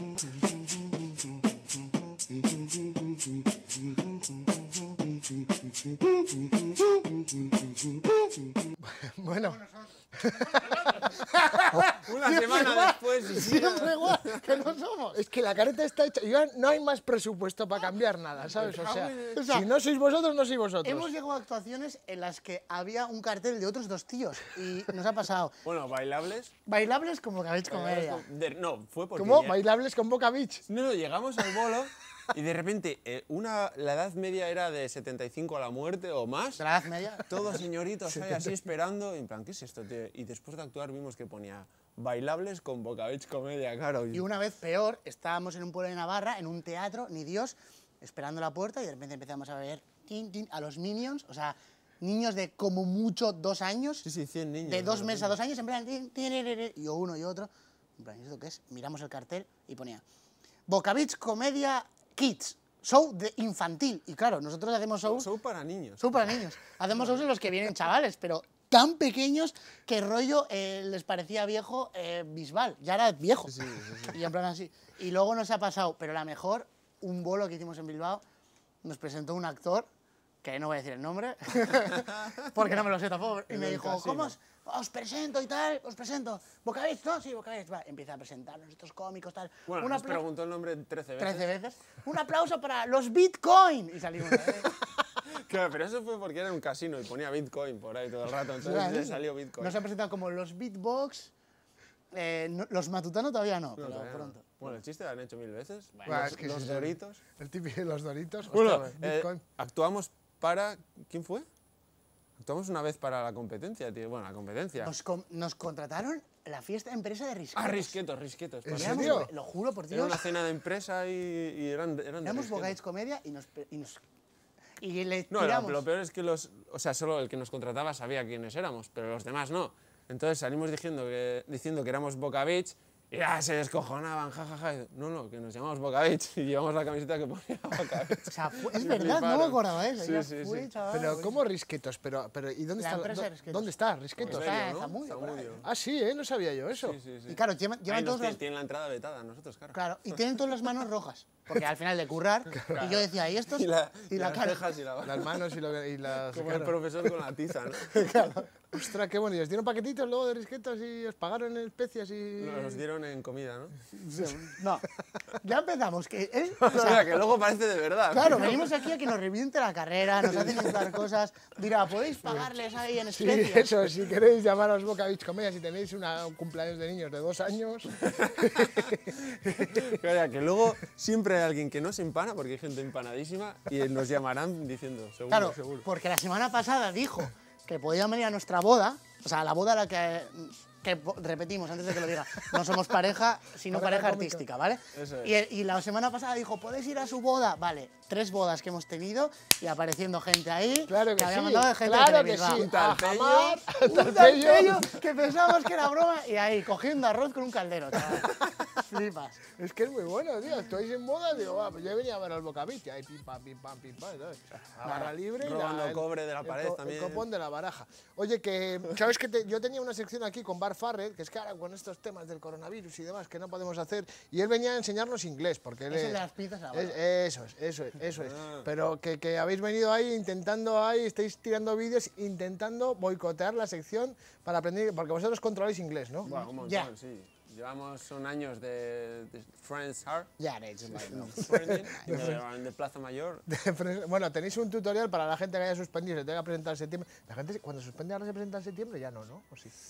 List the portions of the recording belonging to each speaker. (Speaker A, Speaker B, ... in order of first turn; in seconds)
Speaker A: 0.5-1.0, 8.8-9.6, 11.7-12.6, 15.1-21.1, 29.1-30.6, 38.2-38.4, 106.0-109.4, 118.6-119.3, 140.9-144.6, 145.6-147.0, 152.5-152.9, 155.0-157.1, 158.7-162.8, 173.2-179.9, 193.7-194.4, 200.9-204.9, 209.6-226.2, 226.7-236.3, 241.4-242.4, 243.5-249.7
Speaker B: 9.4-15.2, 19.3-19.6, 20.8-25.5, 26.6-28.2, 36.6-37.4, 44.1-54.0, 54.6-60.0, 60.7-65.3, 66.0-73.5, 74.1-78.2, 78.8-79.9, 80.4-90.2, 91.2-94.7, 98.6-101.3, 102.1-104.7, 106.0-106.2, 114.8-118.0, 118.7-120.2, 122.2-124.0, 124.8-125.8, 138.3-141.3, 142.8-145.6, 147.3-148.4, 149.7-154.7, 157.9-158.5, 163.9-164.9, 165.4-167.2, 168.1-173.7, 185.3-202.6, 203.8-209.4, 214.8-215.1, 225.9-227.0, 236.3-236.9, 240.4-242.3
Speaker C: 12.0-14.5, 18.4-19.4, 25.6-26.5, 27.7-29.6, 30.7-36.6, 37.3-44.2, 54.0-55.3, 65.0-66.0, 73.5-74.2, 83.5-84.3, 89.7-91.5, 95.3-99.8, 103.8-107.2, 108.5-111.5, 112.4-114.9, 117.5-119.2, 119.9-122.8, 125.3-140.7, 144.2-145.7, 146.8-149.8, 152.6-155.4, 156.3-158.1, 162.4-163.7, 166.7-168.6, 170.2-170.8, 178.0-178.9, 179.4-185.8, 194.9-195.3, 202.5-203.6, 215.4-217.2, 228.2-228.7, 236.2-240.3, 241.1-243.4